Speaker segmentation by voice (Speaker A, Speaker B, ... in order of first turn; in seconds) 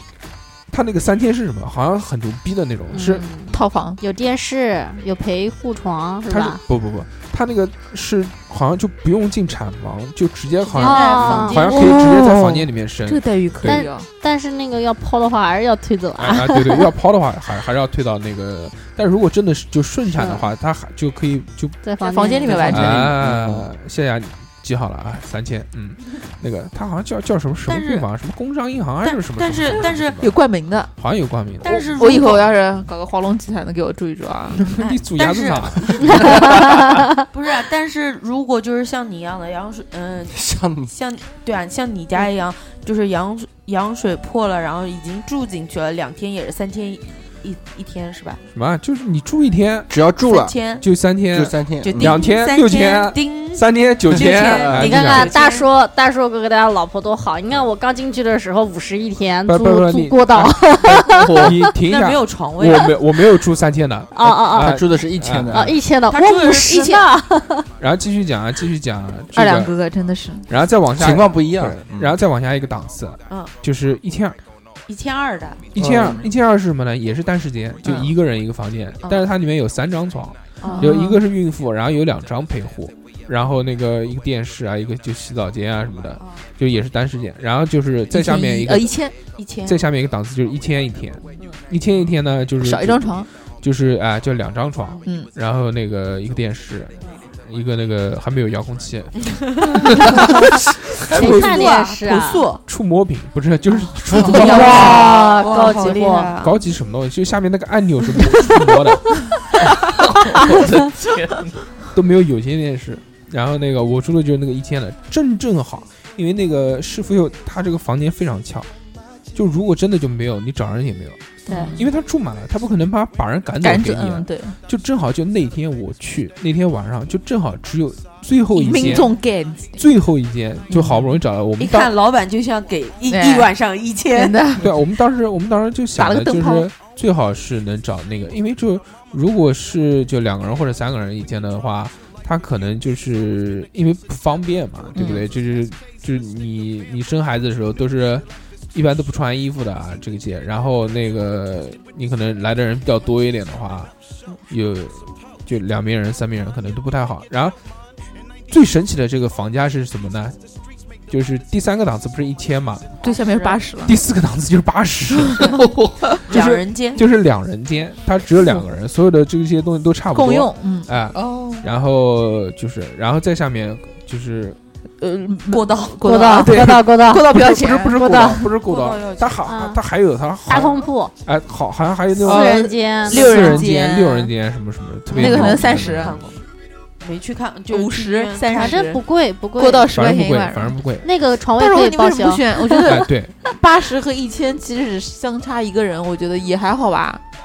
Speaker A: 0.7-3.2, 6.3-13.8, 16.2-21.8, 22.4-30.4, 31.0-31.9, 34.5-36.7, 48.5-49.9, 50.8-55.3, 59.5-65.8, 67.8-69.8, 70.5-74.4, 75.7-89.0, 89.7-99.4, 102.7-105.0, 106.4-109.2, 111.9-118.7, 119.3-129.1, 129.8-131.9, 134.6-153.9, 154.5-157.6, 158.5-160.4, 161.1-162.9, 163.8-165.5, 166.3-174.6, 177.3-186.3, 189.9-191.1, 192.8-193.3
Speaker B: 2.9-6.6, 10.8-11.8, 13.6-16.9, 20.1-20.5, 21.8-23.0, 36.1-37.1, 54.7-61.7, 64.1-64.8, 65.5-67.7, 101.1-102.5, 104.2-106.4, 121.5-121.8, 176.0-178.5, 179.4-179.8, 180.5-181.1, 182.3-183.7, 188.5-190.0, 191.0-193.0
Speaker C: 3.5-4.0, 11.2-14.1, 22.0-23.1, 30.2-30.9, 31.9-34.7, 69.3-70.5, 80.6-81.2, 88.1-89.2, 92.6-93.3, 95.0-95.3, 104.5-104.8, 121.5-121.9, 123.6-124.6, 128.5-129.8, 130.7-131.2, 133.1-133.5, 134.1-134.8, 136.0-136.7, 144.9-145.3, 163.0-164.0, 170.1-170.9, 175.0-178.0, 182.2-184.3, 185.1-186.2, 187.7-189.0, 189.6-190.8, 191.6-197.2
Speaker D: 10.6-12.1, 27.7-28.1, 29.0-30.2, 31.6-32.5, 34.8-36.6, 37.3-48.4, 50.2-50.9, 51.8-55.7, 61.9-63.0, 66.1-67.1, 74.9-75.6, 80.6-80.9, 86.2-86.5, 89.3-89.8, 99.2-100.0, 101.0-102.6, 104.1-106.6, 131.6-134.4, 163.0-163.6, 166.3-167.0, 175.5-176.6, 178.6-179.5, 182.3-183.4, 185.2-186.4, 187.0-188.8
Speaker E: 22.5-23.7, 61.1-61.6, 75.8-76.2, 110.1-111.7, 165.5-166.0, 171.2-171.7
Speaker F: 40.3-40.9, 49.9-50.6, 51.3-52.2, 54.1-54.9, 64.6-65.8, 71.0-72.2